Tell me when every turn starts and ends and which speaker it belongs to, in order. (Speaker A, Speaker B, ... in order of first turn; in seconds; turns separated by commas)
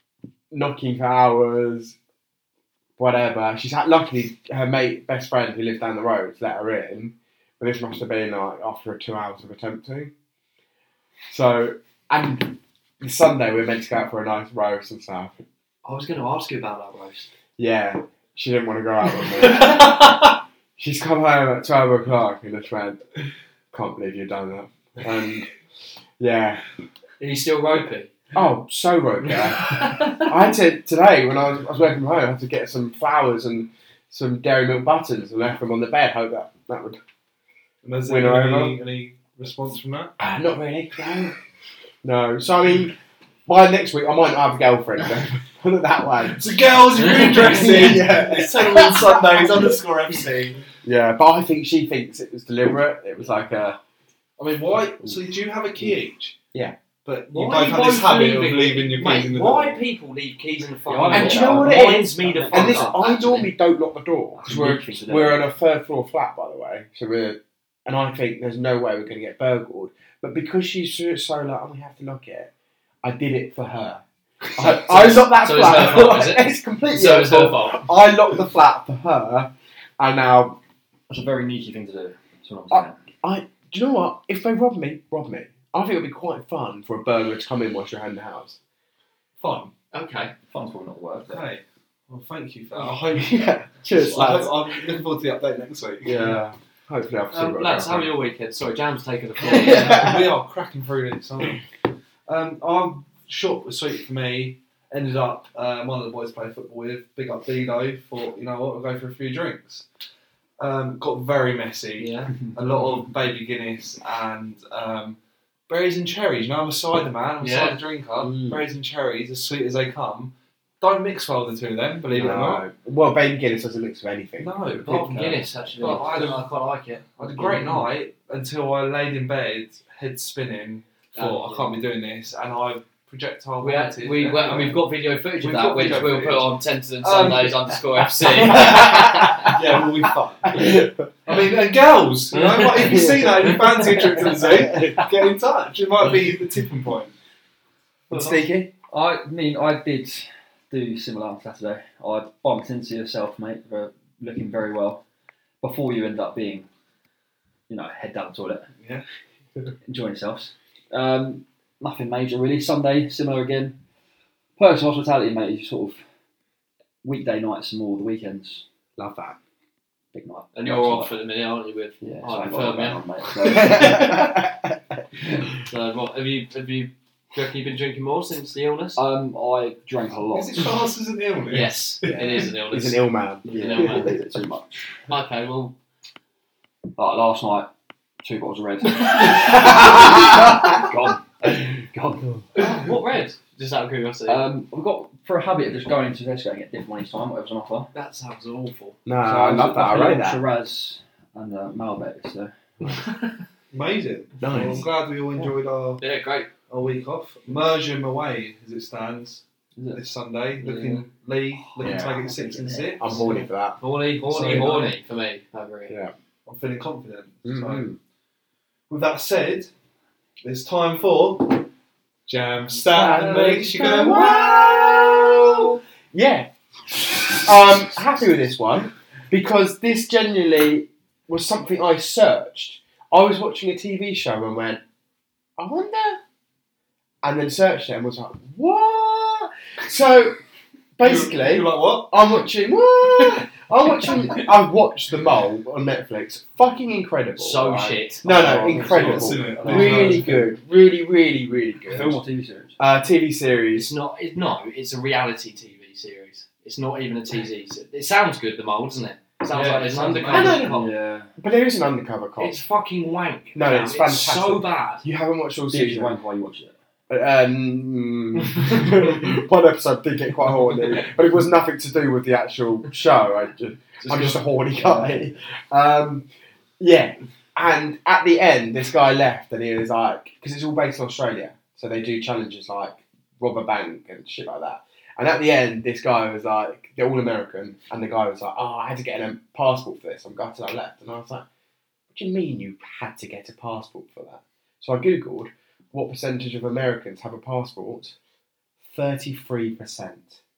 Speaker A: 0.5-1.9, Speaker A: 3.0-10.1, Speaker A: 11.3-15.4, Speaker B: 15.8-17.3, Speaker A: 17.6-23.0, Speaker A: 23.7-25.5, Speaker A: 26.2-26.6, Speaker B: 27.2-28.1, Speaker A: 28.3-37.0, Speaker B: 29.8-30.2, Speaker C: 37.8-40.1, Speaker A: 38.0-38.8, Speaker A: 40.2-41.3, Speaker A: 42.0-43.0, Speaker A: 43.5-49.7, Speaker C: 46.3-50.6, Speaker B: 47.1-47.9, Speaker A: 50.8-53.8, Speaker C: 54.4-56.4, Speaker C: 57.0-59.8, Speaker B: 57.3-63.5, Speaker D: 60.9-63.0, Speaker A: 61.1-72.5, Speaker D: 64.4-65.5, Speaker A: 73.0-74.0, Speaker A: 74.5-80.6, Speaker B: 74.6-77.9, Speaker D: 81.1-83.0, Speaker A: 82.7-88.6, Speaker C: 89.4-89.7, Speaker B: 89.9-90.3, Speaker D: 90.5-91.4, Speaker C: 91.3-96.3, Speaker A: 92.8-94.8, Speaker A: 96.0-98.1, Speaker B: 97.3-100.1, Speaker A: 99.4-100.3, Speaker C: 99.6-101.6, Speaker C: 102.2-109.8, Speaker C: 110.6-115.2, Speaker B: 112.0-112.3, Speaker C: 115.7-122.6, Speaker B: 117.4-117.8, Speaker A: 118.2-118.6, Speaker A: 122.1-124.5, Speaker C: 124.4-126.5, Speaker B: 124.8-127.1, Speaker C: 127.1-134.8, Speaker D: 127.4-127.8, Speaker B: 131.1-131.7, Speaker B: 133.6-139.6, Speaker C: 135.4-147.1, Speaker A: 138.4-139.6, Speaker A: 140.5-141.1, Speaker B: 142.3-144.3, Speaker A: 142.8-145.0, Speaker A: 148.1-148.7, Speaker D: 148.1-155.0, Speaker D: 155.6-156.7, Speaker D: 157.7-158.7, Speaker C: 158.8-159.0, Speaker D: 159.8-163.8, Speaker D: 164.6-166.0, Speaker D: 167.0-168.6, Speaker A: 169.0-169.3, Speaker D: 170.1-171.1, Speaker B: 170.5-173.0, Speaker D: 172.0-174.3, Speaker A: 173.4-174.8, Speaker B: 173.6-173.9, Speaker B: 175.6-179.0, Speaker D: 178.9-180.8, Speaker C: 180.3-182.5, Speaker B: 181.5-184.2, Speaker A: 182.1-184.1, Speaker D: 183.5-185.0, Speaker B: 185.1-185.7, Speaker D: 187.0-187.7, Speaker D: 188.2-192.3, Speaker A: 189.9-190.7, Speaker B: 192.5-194.5, Speaker D: 194.2-197.9, Speaker B: 197.9-199.0, Speaker A: 199.1-200.4, Speaker D: 199.2-202.9, Speaker B: 202.9-203.3, Speaker C: 203.7-206.0, Speaker A: 204.4-204.9, Speaker B: 206.0-206.5, Speaker C: 206.7-209.4, Speaker D: 209.8-210.0, Speaker C: 209.9-213.3, Speaker B: 210.6-211.0, Speaker D: 211.6-213.5, Speaker A: 211.8-212.2, Speaker A: 213.0-213.8, Speaker B: 213.8-215.9, Speaker C: 214.3-214.9, Speaker D: 214.4-214.9, Speaker C: 216.4-217.9, Speaker A: 217.4-218.0, Speaker C: 218.9-219.7, Speaker C: 220.4-221.7, Speaker C: 222.3-224.3, Speaker B: 222.9-225.1, Speaker A: 223.0-234.8, Speaker A: 235.6-236.2, Speaker A: 237.2-240.4, Speaker A: 241.0-252.2, Speaker C: 241.0-242.2, Speaker B: 247.4-248.2, Speaker D: 248.2-250.4, Speaker C: 248.7-250.4, Speaker D: 251.9-252.8, Speaker A: 252.8-253.9, Speaker B: 253.7-260.9, Speaker C: 259.5-260.6, Speaker A: 260.3-260.8, Speaker D: 260.6-261.3, Speaker A: 261.4-262.6, Speaker B: 262.4-265.0, Speaker A: 263.5-266.2, Speaker D: 265.7-266.7, Speaker A: 267.1-276.3, Speaker B: 274.0-274.4, Speaker D: 274.7-275.2, Speaker A: 276.8-291.4, Speaker A: 292.1-298.1, Speaker A: 298.8-300.4